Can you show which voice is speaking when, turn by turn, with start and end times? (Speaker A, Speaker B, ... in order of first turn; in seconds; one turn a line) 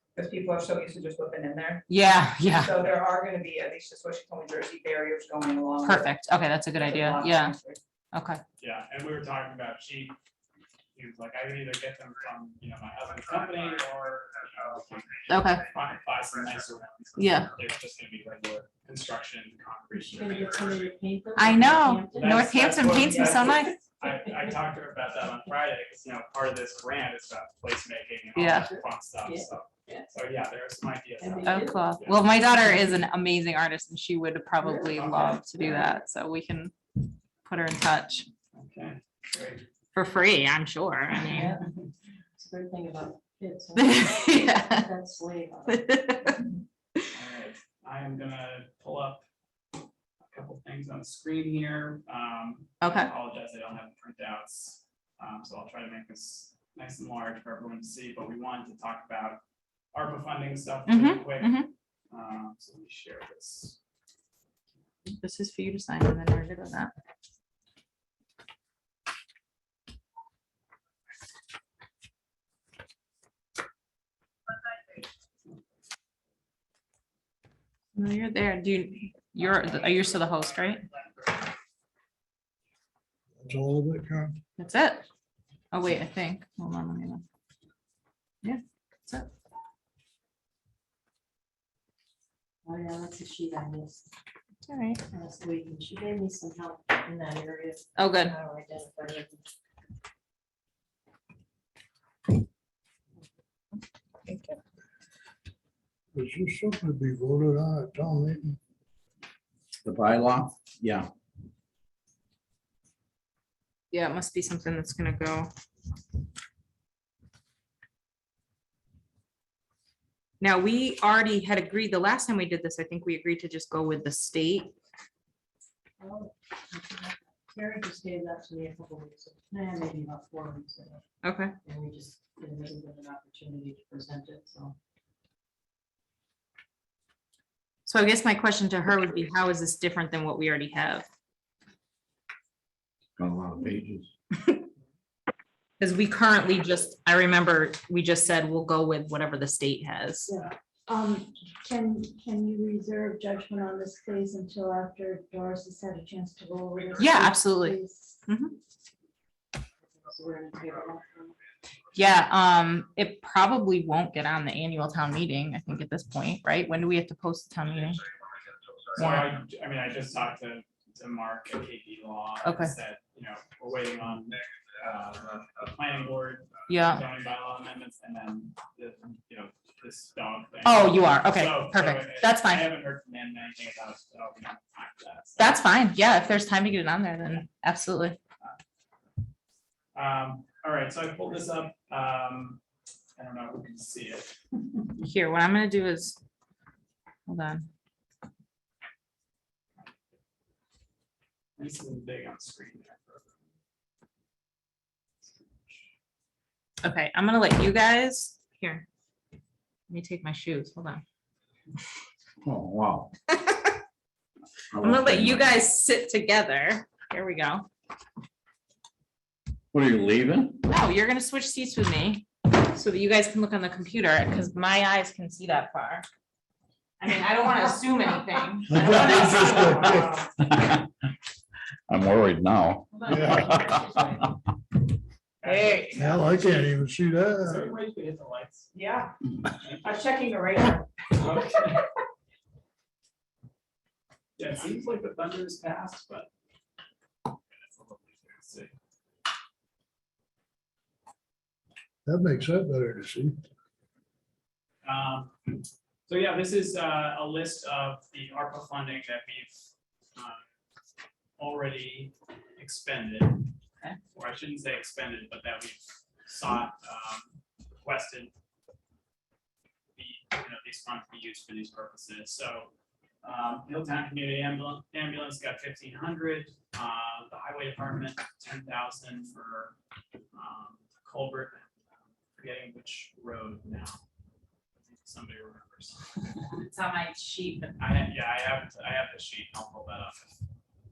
Speaker A: 0.1-1.9
Speaker B: 1.9-2.7
Speaker A: 2.5-6.1
Speaker B: 5.8-7.5
Speaker A: 6.8-7.8
Speaker B: 8.1-8.4
Speaker C: 8.6-10.1
Speaker C: 10.9-21.0
Speaker B: 15.3-15.7
Speaker B: 17.1-17.5
Speaker D: 20.0-22.4
Speaker B: 21.4-23.8
Speaker C: 22.1-32.3
Speaker D: 24.1-24.5
Speaker B: 28.3-28.7
Speaker D: 28.7-30.0
Speaker D: 31.2-31.9
Speaker B: 31.4-36.7
Speaker D: 32.5-33.0
Speaker D: 34.6-35.9
Speaker C: 34.9-35.3
Speaker B: 37.4-38.3
Speaker C: 38.5-39.6
Speaker B: 39.9-41.6
Speaker D: 41.1-41.6
Speaker D: 42.4-45.9
Speaker B: 43.7-44.9
Speaker B: 45.6-47.1
Speaker C: 47.1-49.2
Speaker C: 50.3-59.4
Speaker B: 52.8-53.1
Speaker C: 59.9-61.5
Speaker B: 60.9-61.7
Speaker C: 62.1-63.8
Speaker B: 65.2-66.9
Speaker B: 77.9-80.8
Speaker E: 83.4-84.4
Speaker B: 84.6-85.1
Speaker B: 85.7-87.2
Speaker B: 88.4-89.3
Speaker D: 92.6-94.1
Speaker B: 94.7-95.0
Speaker D: 95.1-99.5
Speaker B: 98.0-98.3
Speaker B: 104.2-104.6
Speaker E: 106.1-108.6
Speaker F: 109.8-111.1
Speaker B: 113.9-115.5
Speaker B: 120.4-124.7
Speaker D: 126.0-131.0
Speaker B: 131.2-131.5
Speaker D: 131.6-134.8
Speaker B: 137.8-141.1
Speaker F: 143.2-144.1
Speaker B: 145.8-150.3
Speaker G: 150.3-158.2
Speaker B: 157.0-158.6
Speaker D: 159.9-161.3
Speaker B: 161.9-168.0
Speaker C: 168.9-185.4
Speaker B: 168.9-169.3
Speaker B: 172.4-172.7
Speaker B: 176.7-177.0
Speaker B: 180.6-182.7
Speaker B: 185.4-188.2
Speaker C: 189.9-192.6
Speaker C: 193.2-194.9
Speaker B: 195.0-196.2
Speaker B: 197.3-197.7
Speaker C: 201.6-203.4
Speaker B: 206.8-208.8
Speaker B: 209.9-211.0
Speaker F: 212.4-213.1
Speaker B: 213.3-213.8
Speaker F: 214.7-215.5
Speaker B: 214.8-217.7
Speaker F: 219.7-220.6
Speaker B: 220.7-226.1
Speaker B: 227.0-229.8
Speaker E: 228.7-230.2
Speaker C: 228.7-230.3
Speaker F: 230.4-230.8
Speaker F: 231.9-233.8
Speaker B: 233.0-234.2
Speaker E: 233.1-233.5
Speaker C: 235.4-236.7
Speaker B: 235.4-236.1
Speaker E: 235.9-237.7
Speaker C: 237.4-238.7
Speaker A: 238.7-239.1
Speaker C: 239.6-239.9
Speaker A: 239.8-240.9
Speaker C: 241.1-241.8
Speaker C: 244.4-246.3
Speaker C: 247.5-248.7
Speaker E: 252.0-253.3
Speaker C: 254.8-260.4
Speaker C: 261.4-263.4
Speaker C: 264.1-268.3
Speaker C: 269.9-272.7
Speaker C: 273.2-279.7
Speaker C: 280.3-281.7
Speaker C: 282.3-284.0
Speaker C: 284.8-286.0
Speaker B: 286.4-287.8
Speaker C: 287.8-290.3